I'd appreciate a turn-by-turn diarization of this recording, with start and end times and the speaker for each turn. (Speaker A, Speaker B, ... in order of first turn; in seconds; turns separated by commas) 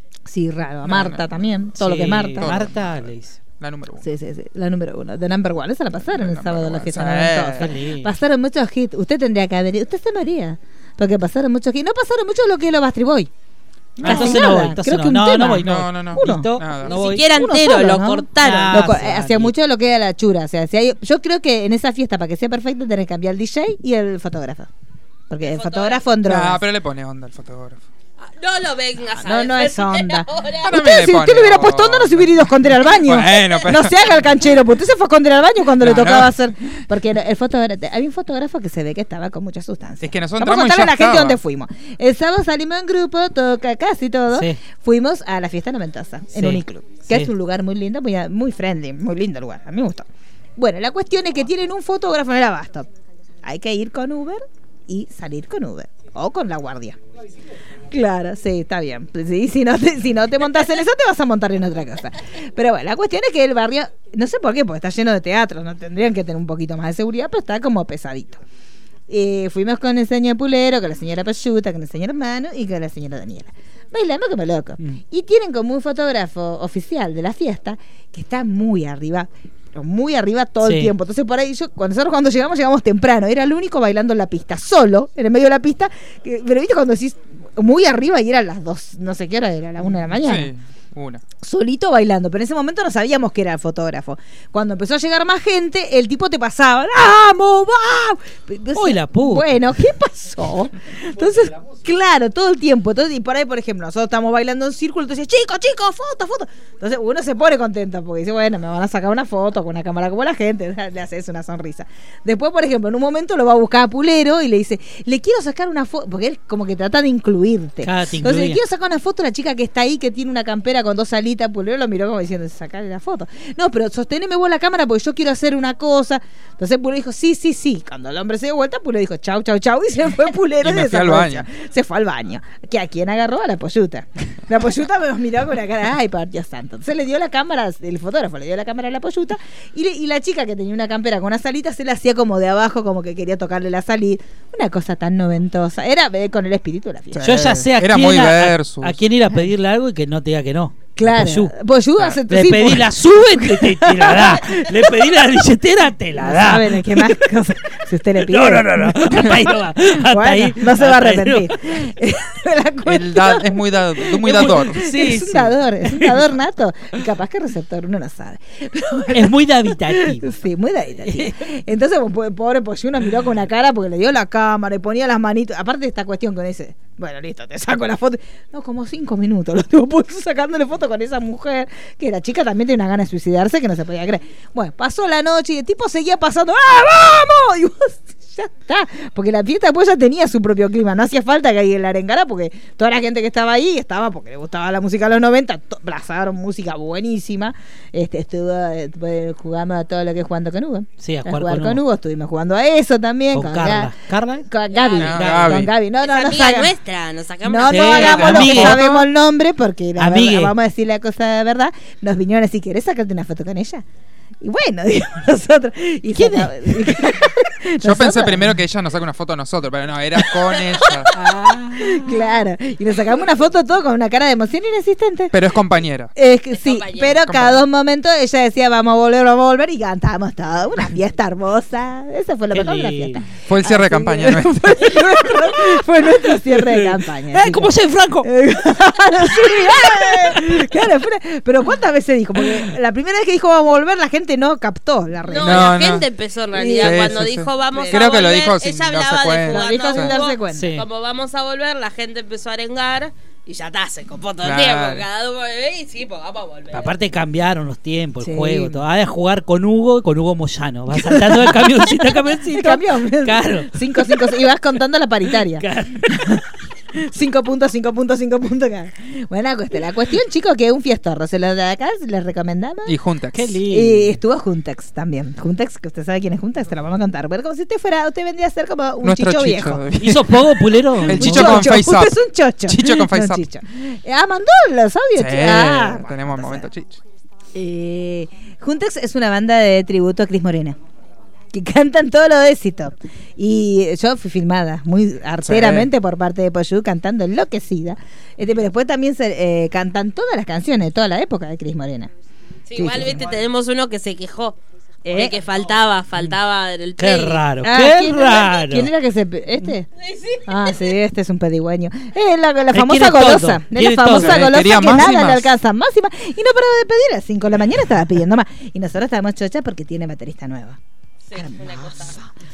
Speaker A: 0.3-2.5, Speaker B: 0.9-1.3, Speaker C: 1.8-3.4, Speaker B: 2.4-4.1, Speaker A: 4.0-13.3, Speaker B: 6.1-7.7, Speaker C: 7.5-8.1, Speaker A: 14.0-16.6, Speaker B: 14.0-14.5, Speaker C: 14.0-17.3, Speaker B: 15.6-16.9, Speaker D: 16.9-18.9, Speaker A: 17.1-24.7, Speaker C: 18.4-19.5, Speaker A: 25.3-26.6, Speaker D: 25.5-26.1, Speaker B: 26.2-27.8, Speaker D: 28.2-30.7, Speaker A: 29.2-50.1, Speaker B: 30.6-34.1, Speaker B: 35.8-36.3, Speaker B: 40.0-41.4, Speaker C: 44.3-44.6, Speaker C: 46.4-47.3, Speaker A: 50.6-52.9, Speaker A: 53.4-57.0, Speaker A: 57.9-68.4, Speaker A: 69.1-90.5, Speaker C: 80.6-80.9, Speaker B: 90.2-91.2, Speaker A: 91.4-147.7, Speaker C: 98.8-99.5, Speaker C: 117.8-118.6, Speaker B: 130.6-131.5, Speaker C: 147.2-151.5, Speaker B: 147.7-149.0, Speaker A: 151.0-155.1, Speaker C: 152.3-157.2, Speaker A: 156.2-203.9, Speaker C: 158.2-161.5, Speaker B: 162.8-164.8, Speaker C: 164.2-166.3, Speaker C: 169.1-170.3, Speaker C: 171.1-171.3, Speaker C: 201.0-201.8, Speaker C: 203.3-204.5, Speaker A: 204.5-206.7, Speaker D: 204.7-205.1, Speaker B: 205.0-205.7, Speaker C: 205.1-205.7, Speaker D: 206.0-208.5, Speaker A: 207.4-213.8, Speaker C: 207.7-208.8, Speaker B: 207.9-209.1, Speaker C: 210.0-210.5, Speaker A: 214.4-218.6, Speaker C: 216.2-216.9, Speaker B: 217.8-221.1, Speaker A: 220.5-225.4, Speaker C: 221.1-222.2, Speaker B: 225.3-226.1, Speaker A: 226.2-237.7, Speaker D: 226.6-227.2, Speaker B: 227.2-227.6, Speaker C: 232.5-233.2, Speaker B: 233.5-234.9, Speaker C: 236.2-238.3, Speaker A: 238.2-245.9, Speaker C: 239.8-240.4, Speaker D: 245.3-256.9, Speaker B: 245.4-246.1, Speaker A: 246.5-247.2, Speaker B: 246.8-250.2, Speaker A: 247.8-248.1, Speaker A: 249.5-250.7, Speaker C: 250.5-250.8, Speaker B: 254.4-255.1, Speaker C: 256.7-264.3, Speaker A: 258.2-258.8, Speaker A: 260.9-266.4, Speaker C: 265.6-266.3, Speaker A: 266.9-273.0, Speaker B: 272.9-273.6, Speaker C: 273.3-274.1, Speaker A: 273.6-279.8, Speaker B: 279.0-280.3, Speaker C: 279.9-281.7, Speaker B: 281.0-283.4, Speaker A: 281.1-286.7, Speaker B: 285.2-287.0, Speaker A: 287.6-290.8, Speaker A: 291.5-302.1, Speaker B: 295.4-295.9, Speaker D: 302.7-304.6, Speaker A: 302.8-303.3, Speaker A: 305.1-305.4, Speaker D: 305.1-307.4, Speaker C: 307.0-308.9, Speaker A: 307.6-309.9, Speaker D: 310.0-311.0, Speaker A: 310.5-320.8, Speaker C: 312.7-314.6, Speaker B: 314.1-315.5, Speaker D: 321.3-322.2, Speaker A: 321.4-322.2